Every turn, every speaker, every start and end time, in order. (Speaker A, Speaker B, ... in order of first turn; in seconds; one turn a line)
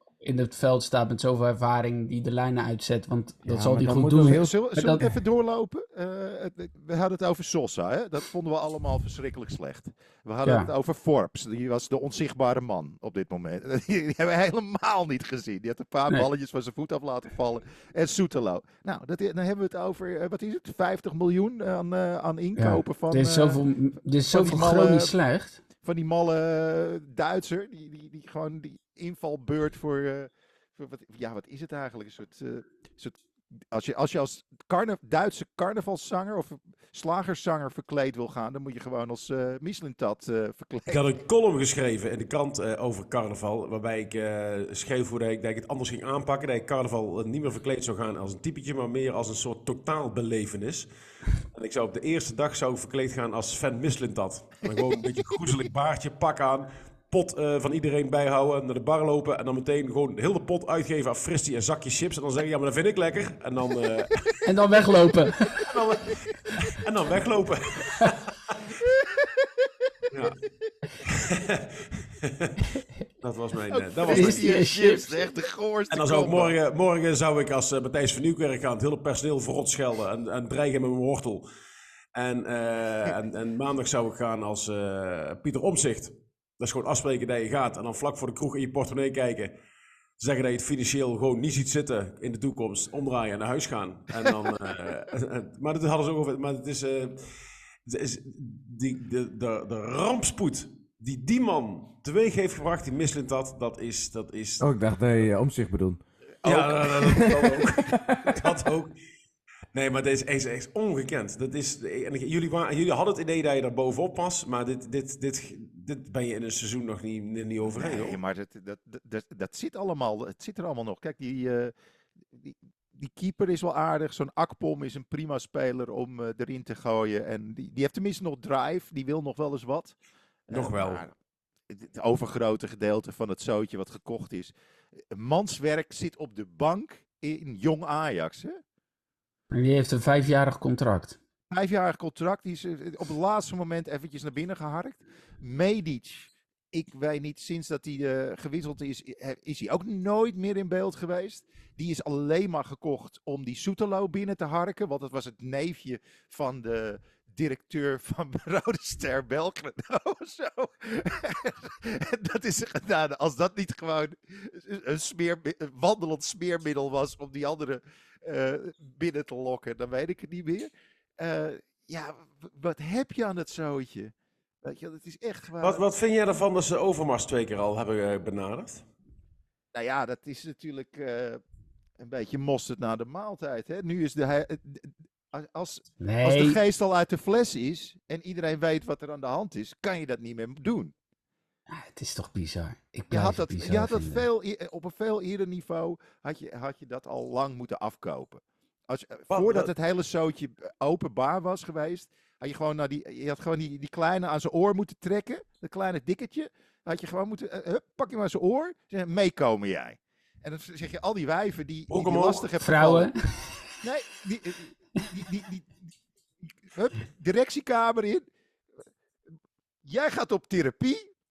Speaker A: 0.2-5.1
Speaker B: 3.5-4.5
Speaker C: 4.2-23.6
Speaker A: 22.6-25.6
Speaker C: 24.3-25.1
Speaker C: 25.8-33.2
Speaker C: 33.7-41.0
Speaker D: 40.9-50.9
Speaker D: 51.4-64.3
Speaker A: 64.4-65.7
Speaker D: 65.6-68.6
Speaker C: 69.2-69.5
Speaker D: 70.1-70.5
Speaker D: 71.0-72.6
Speaker D: 73.2-74.5
Speaker C: 73.7-76.5
Speaker A: 74.1-75.2
Speaker D: 75.9-81.5
Speaker D: 82.2-89.5
Speaker D: 90.2-97.3
Speaker D: 97.8-104.7
Speaker B: 104.6-106.0
Speaker D: 106.4-109.0
Speaker B: 107.0-108.4
Speaker D: 109.7-118.2
Speaker C: 117.7-121.7
Speaker C: 122.3-130.0
Speaker C: 130.5-131.1
Speaker D: 130.5-131.1
Speaker C: 131.7-134.5
Speaker C: 135.1-138.6
Speaker A: 139.5-141.2
Speaker C: 141.5-175.8
Speaker D: 175.6-178.8
Speaker C: 179.7-181.4
Speaker C: 182.0-190.9
Speaker A: 186.0-186.6
Speaker A: 191.7-194.3
Speaker C: 193.1-213.1
Speaker D: 199.3-199.7
Speaker D: 211.9-212.5
Speaker A: 212.6-213.6
Speaker C: 213.8-215.8
Speaker C: 216.7-218.3
Speaker C: 219.8-221.1